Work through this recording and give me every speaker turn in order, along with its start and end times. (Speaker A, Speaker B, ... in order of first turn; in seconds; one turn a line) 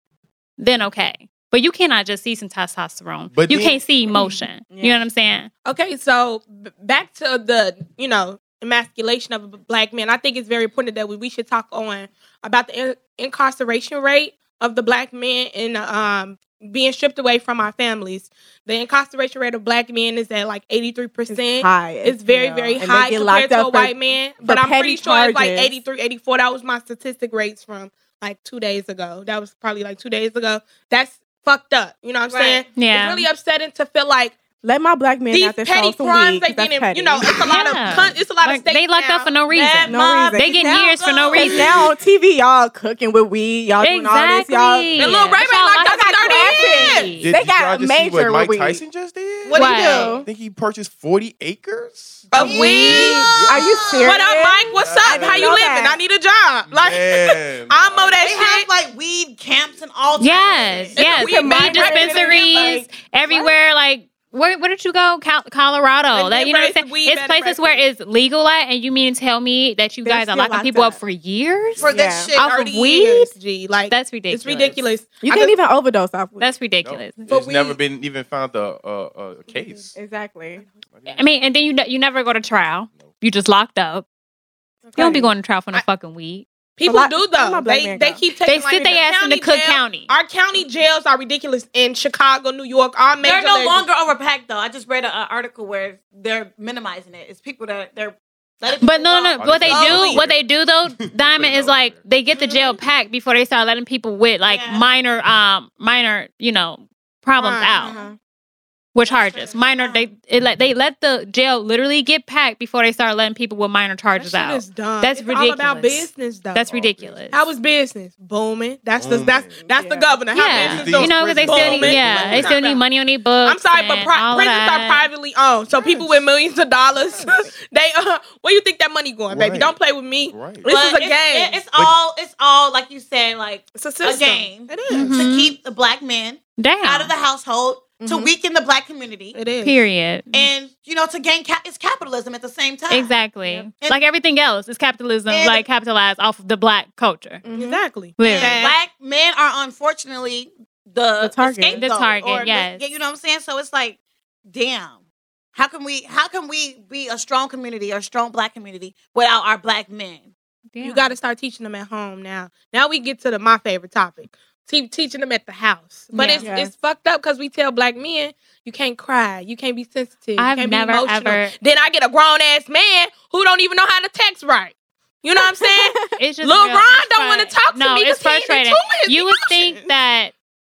Speaker A: 0.6-5.5
Speaker B: 3.3-3.8
Speaker C: 4.7-5.0
Speaker D: 5.6-34.4
Speaker C: 21.3-25.7
Speaker E: 32.3-32.6
Speaker A: 32.7-33.3
Speaker C: 34.6-37.4
Speaker D: 35.3-39.3
Speaker A: 37.4-41.7
Speaker E: 39.5-41.9
Speaker C: 39.9-45.2
Speaker A: 43.8-47.3
Speaker D: 45.0-47.1
Speaker C: 45.9-48.8
Speaker B: 47.2-53.9
Speaker E: 49.4-50.1
Speaker A: 49.5-50.1
Speaker C: 49.7-50.2
Speaker D: 52.3-53.3
Speaker A: 52.3-53.3
Speaker E: 52.4-54.2
Speaker C: 53.5-56.0
Speaker D: 54.0-58.6
Speaker B: 54.7-55.6
Speaker B: 56.7-58.3
Speaker E: 58.2-61.0
Speaker A: 60.2-71.8
Speaker D: 60.9-62.8
Speaker C: 61.0-63.5
Speaker D: 66.1-67.8
Speaker C: 70.0-71.0
Speaker E: 71.8-73.1
Speaker C: 71.9-72.3
Speaker D: 72.4-75.5
Speaker A: 72.4-73.2
Speaker A: 73.9-74.8
Speaker C: 75.2-76.5
Speaker A: 76.4-77.2
Speaker B: 76.8-80.0
Speaker D: 77.3-77.8
Speaker C: 79.9-80.6
Speaker B: 80.9-81.2
Speaker A: 81.1-84.0
Speaker C: 84.9-85.3
Speaker D: 85.0-85.8
Speaker A: 85.0-86.5
Speaker D: 86.8-93.8
Speaker C: 86.8-88.2
Speaker A: 88.4-90.1
Speaker E: 93.2-100.2
Speaker A: 98.8-108.0
Speaker B: 99.3-102.0
Speaker E: 102.3-102.8
Speaker E: 104.4-104.9
Speaker D: 107.4-108.1
Speaker E: 107.8-108.1
Speaker A: 108.9-117.4
Speaker E: 109.3-110.0
Speaker D: 114.2-116.6
Speaker B: 116.6-117.3
Speaker D: 117.3-122.8
Speaker B: 119.0-119.7
Speaker C: 119.6-120.2
Speaker A: 120.3-125.1
Speaker B: 120.5-122.5
Speaker D: 123.4-131.6
Speaker B: 129.3-129.7
Speaker B: 130.3-130.7
Speaker E: 130.7-139.4
Speaker D: 133.8-135.1
Speaker A: 134.9-135.5
Speaker A: 136.6-137.1
Speaker D: 139.3-139.8
Speaker A: 139.6-140.5
Speaker E: 140.3-143.1
Speaker A: 142.9-147.4
Speaker E: 145.3-145.6
Speaker C: 147.4-147.8
Speaker D: 147.5-148.8
Speaker A: 148.2-148.6
Speaker E: 148.2-154.0
Speaker C: 151.2-151.8
Speaker A: 151.8-152.8
Speaker E: 154.5-155.0
Speaker E: 155.5-160.3
Speaker A: 160.7-161.1
Speaker D: 160.8-179.8
Speaker A: 166.1-166.5
Speaker C: 166.4-166.7
Speaker A: 170.4-171.5
Speaker C: 175.6-175.9
Speaker A: 176.2-180.3